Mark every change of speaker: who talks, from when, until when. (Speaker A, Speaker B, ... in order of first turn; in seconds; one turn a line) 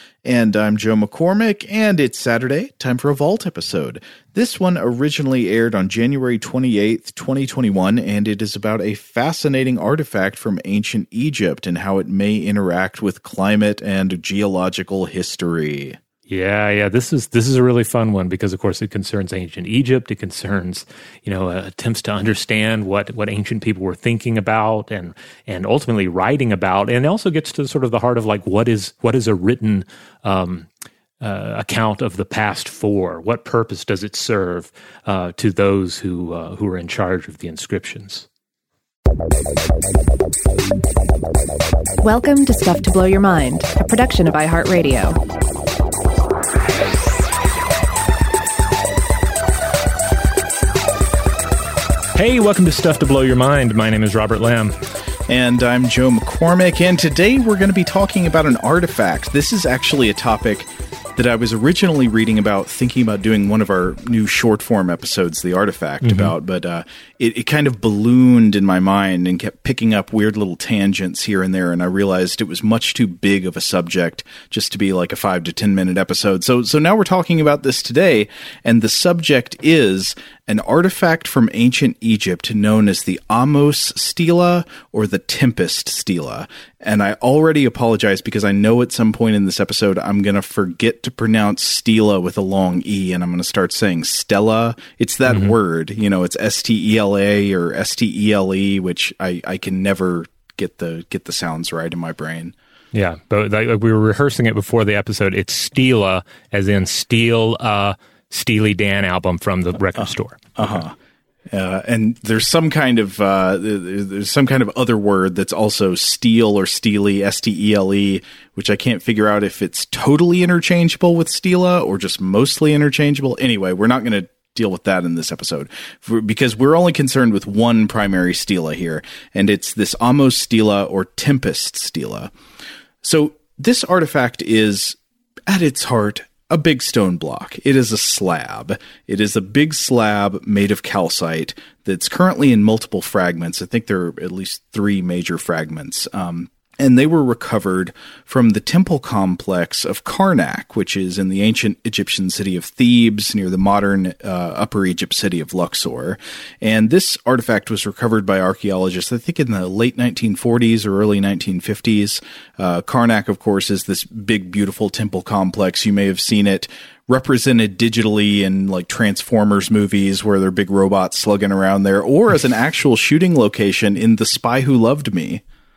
Speaker A: 0.2-16.0
Speaker B: 16.3-30.7
Speaker B: 31.2-38.2
Speaker C: 42.0-45.2
Speaker B: 52.1-54.8
Speaker A: 55.3-102.5
Speaker B: 66.0-66.3
Speaker B: 102.9-110.8
Speaker A: 110.5-110.9
Speaker A: 111.5-132.3
Speaker A: 133.0-175.4